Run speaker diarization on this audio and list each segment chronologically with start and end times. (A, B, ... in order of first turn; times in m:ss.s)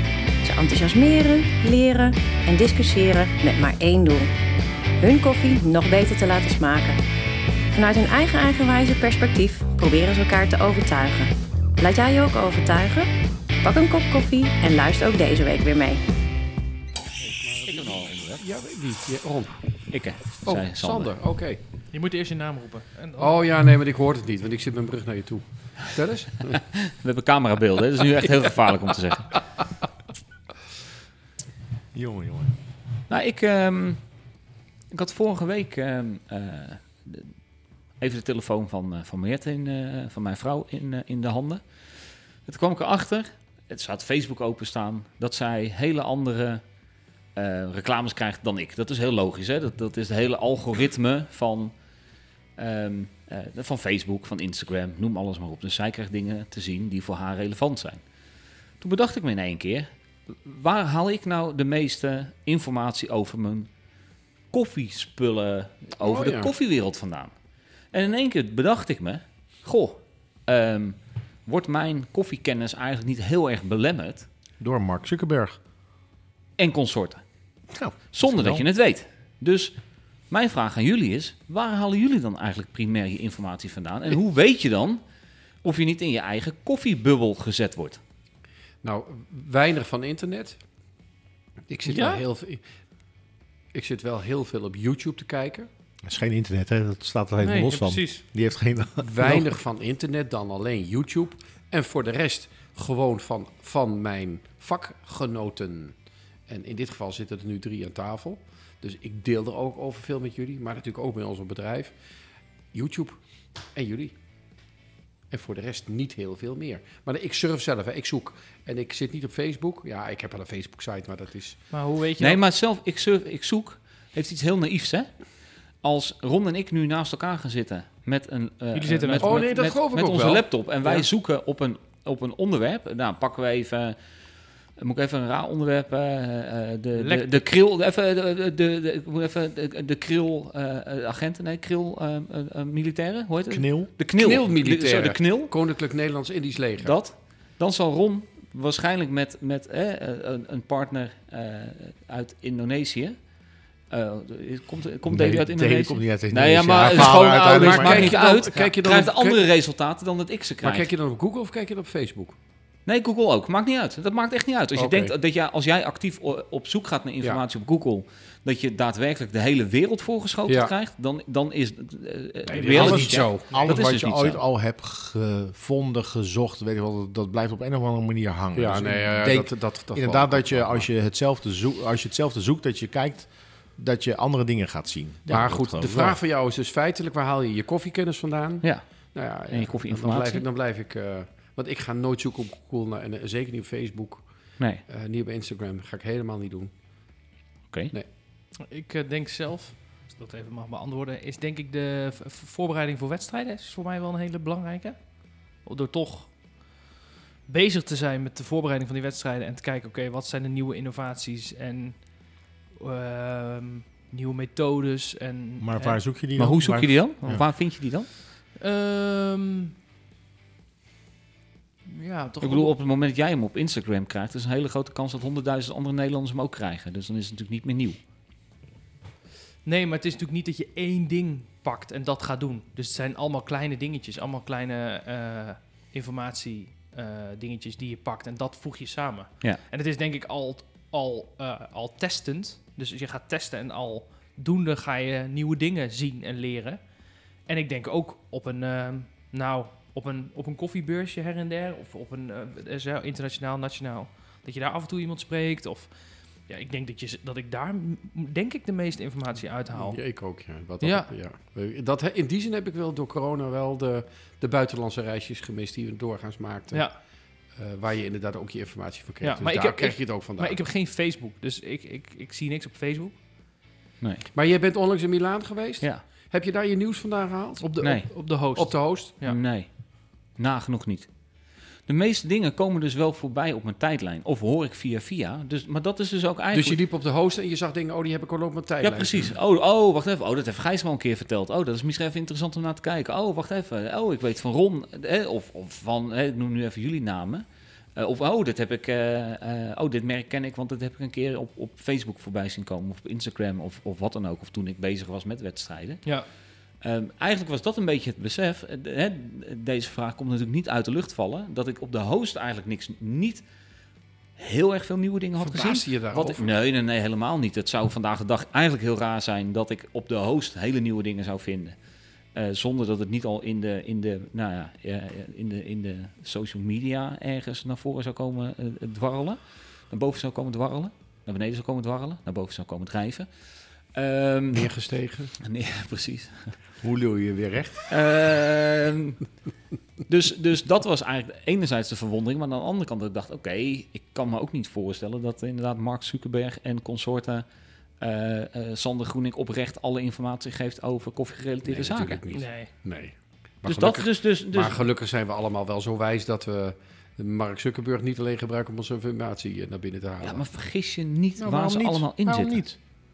0:00.4-0:04.3 A
0:05.0-0:07.0 A
0:07.7-0:13.1 A
0:13.6-0:16.0 A
0:17.2-0:19.5 B
0:17.7-0:18.4 C
0:19.9-0:21.1 C
0:20.4-0:21.6 B
0:21.9-0:23.4 D
0:23.2-0:26.6 B
0:26.8-0:29.4 C
0:31.9-0:32.5 E
0:33.1-0:34.0 C
0:34.9-0:37.3 C
0:38.0-0:41.6 C
0:42.5-0:46.6 C
0:47.4-0:51.7 C
0:52.6-0:58.0 C
0:58.8-1:03.7 C
1:04.5-1:07.3 C
1:06.0-1:06.5 B
1:07.9-1:14.3 C
1:14.6-1:15.6 E
1:16.6-1:17.2 C
1:17.7-1:18.6 E
1:18.1-1:19.8 C
1:20.3-1:25.0 C
1:25.6-1:28.0 C
1:28.8-1:30.6 B
1:31.7-1:32.6 B
1:31.8-1:32.2 D
1:33.7-1:35.7 B
1:36.1-1:39.5 E
1:37.4-1:38.2 D
1:39.0-1:45.9 B
1:46.5-1:51.9 B
1:52.7-1:54.1 B
1:55.3-2:01.6 B
2:01.7-2:02.4 D
2:02.2-2:05.1 C
2:05.8-2:14.0 C
2:08.7-2:09.5 D
2:09.2-2:11.1 B
2:14.8-2:25.5 C
2:16.9-2:17.5 D
2:23.5-2:23.9 E
2:24.2-2:27.0 B
2:26.8-2:33.2 C
2:33.9-2:40.9 C
2:35.1-2:38.2 E
2:36.8-2:39.5 B
2:40.6-2:42.4 B
2:42.9-2:54.4 C
2:44.8-2:45.1 B
2:50.5-2:50.7 B
2:52.5-2:53.6 B
2:52.5-3:06.2 E
2:58.5-3:00.9 B
3:05.3-3:14.3 B
3:09.5-3:10.4 C
3:14.8-3:16.7 B
3:18.6-3:26.7 D
3:27.5-3:36.0 D
3:35.6-3:37.4 E
3:36.4-3:38.1 C
3:38.6-3:39.7 D
3:41.8-3:42.7 D
3:42.4-3:48.0 C
3:49.6-4:06.8 D
4:07.5-4:15.9 D
4:16.5-4:20.0 D
4:19.7-4:26.9 B
4:20.8-4:21.1 D
4:27.6-4:30.6 B
4:29.2-4:33.2 D
4:34.3-4:37.7 B
4:37.6-4:39.4 D
4:37.8-4:38.1 C
4:38.5-4:39.2 B
4:39.2-4:39.7 C
4:40.4-4:41.1 C
4:41.9-4:46.8 C
4:46.5-4:49.3 B
4:48.8-5:06.0 C
5:06.8-5:13.4 C
5:14.4-5:21.8 C
5:15.4-5:16.6 B
5:22.4-5:29.4 C
5:29.9-5:33.3 C
5:33.9-5:34.7 C
5:34.5-5:35.3 B
5:35.4-5:36.6 C
5:36.8-5:37.9 E
5:37.9-5:39.2 C
5:40.1-5:47.5 C
5:48.0-5:52.2 C
5:51.7-6:00.4 B
5:52.3-5:52.7 D
5:53.6-5:54.8 C
6:00.2-6:02.6 C
6:01.4-6:02.8 E